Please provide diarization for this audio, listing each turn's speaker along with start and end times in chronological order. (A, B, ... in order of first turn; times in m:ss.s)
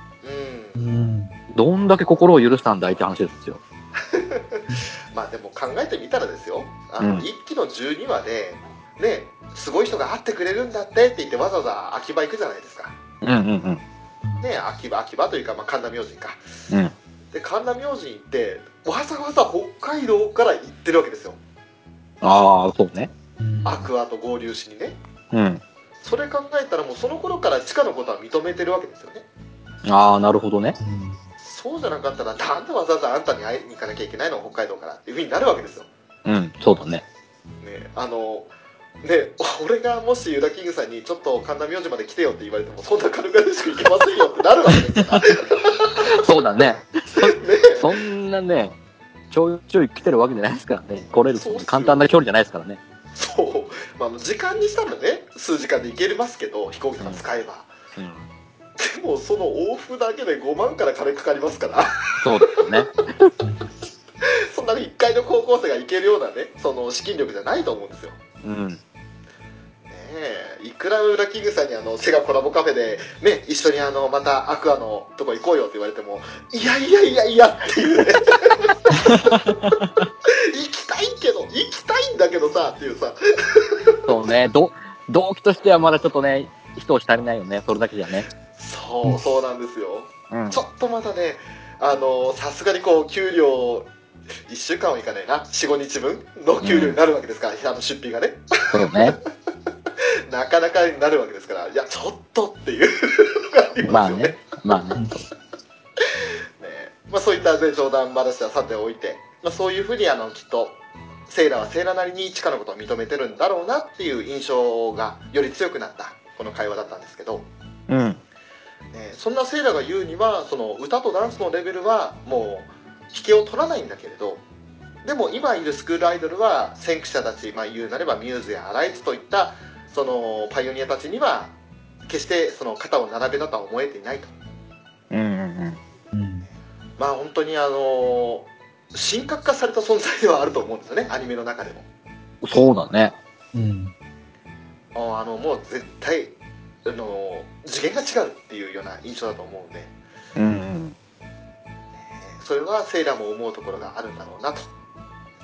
0:00.2-0:00.8 A
0:00.7-0:01.3 B
0:01.5-0:03.6 C
0:04.0-0:13.0 A
0:07.0-0:07.2 C
0:13.2-0:13.8 C
0:14.4-0:16.4 A
0:17.3-0:21.4 A
0:22.2-0:23.1 C
0:23.4-0:23.9 B
0:23.6-0:25.0 A
0:25.3-0:25.6 C
0:26.0-0:29.2 A
0:29.8-0:30.8 C
0:30.8-0:31.2 B
0:31.4-0:35.9 A
0:36.2-0:37.0 C
0:37.6-0:38.5 A
0:39.0-0:46.1 A
0:46.0-0:48.7 C
0:47.1-0:47.9 A
0:49.3-0:52.8 C
0:51.3-0:52.0 A
0:53.1-0:57.7 A
0:58.0-0:58.2 C
0:58.8-1:01.9 A
1:02.2-1:02.9 C
1:04.2-1:08.2 A
1:08.4-1:08.8 C
1:09.9-1:19.5 A
1:20.2-1:24.1 A
1:24.1-1:28.3 C
1:28.6-1:33.9 A
1:30.3-1:30.6 C
1:34.5-1:39.2 A
1:36.6-1:37.0 C
1:38.7-1:39.2 C
1:40.3-1:44.4 A
1:43.8-1:45.2 C
1:46.6-1:50.8 A
1:51.3-1:57.5 A
1:57.9-1:58.2 C
1:58.9-2:04.4 A
2:05.0-2:11.5 A
2:12.1-2:14.3 A
2:15.1-2:15.8 C
2:16.1-2:16.4 B
2:17.0-2:21.8 A
2:22.4-2:23.1 C
2:23.5-2:23.9 B
2:24.9-2:29.9 A
2:30.4-2:30.9 C
2:32.1-2:34.7 A